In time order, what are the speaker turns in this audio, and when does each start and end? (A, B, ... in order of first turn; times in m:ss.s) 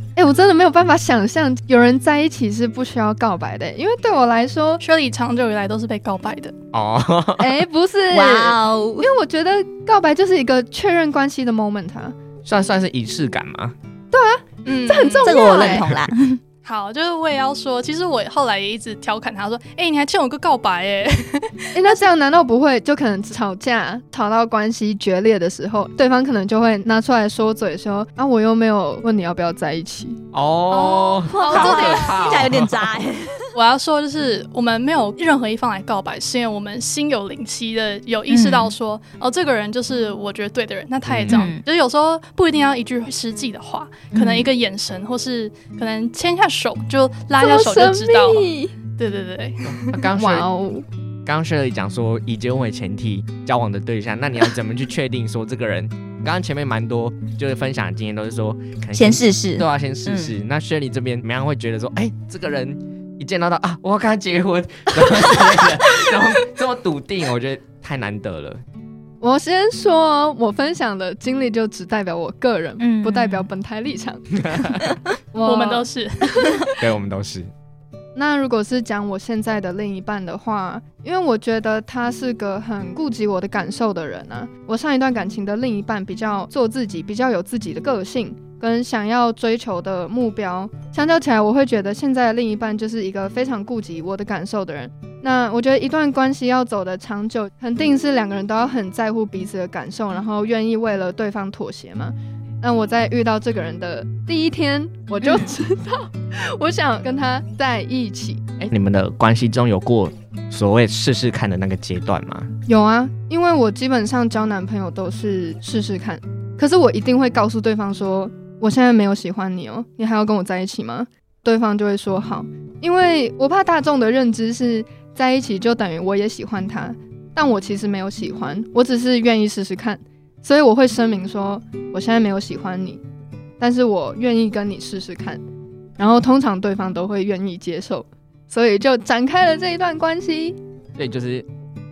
0:00.2-0:04.8 A
0:04.8-0:06.5 B
0:06.7-0:07.6 C
0:07.4-0:12.1 A
0:08.1-0:09.1 D
0:12.4-0:13.7 C
0:14.1-0:15.9 A
0:14.6-0:15.7 B
0:15.2-0:16.4 D
0:16.6-0:22.0 B
0:21.7-0:30.2 A
0:30.3-0:32.7 C
0:30.7-0:33.4 D
0:31.4-0:32.1 B
0:33.5-0:49.9 B
0:38.3-0:38.7 D
0:41.1-0:41.4 C
0:41.3-0:41.6 D
0:44.1-0:44.5 D
0:47.4-0:48.7 A
0:49.7-0:50.5 C
0:50.1-0:50.8 A
0:51.2-1:08.6 C
0:58.9-1:00.3 D
1:09.2-1:14.8 A
1:12.8-1:13.5 D
1:14.4-1:14.8 C
1:15.3-1:15.9 A
1:15.4-1:16.6 B
1:16.8-1:17.5 C
1:18.1-1:48.4 A
1:48.6-1:52.5 C
1:52.7-2:13.0 A
2:13.6-2:15.4 A
2:16.0-2:20.6 A
2:21.0-2:21.4 C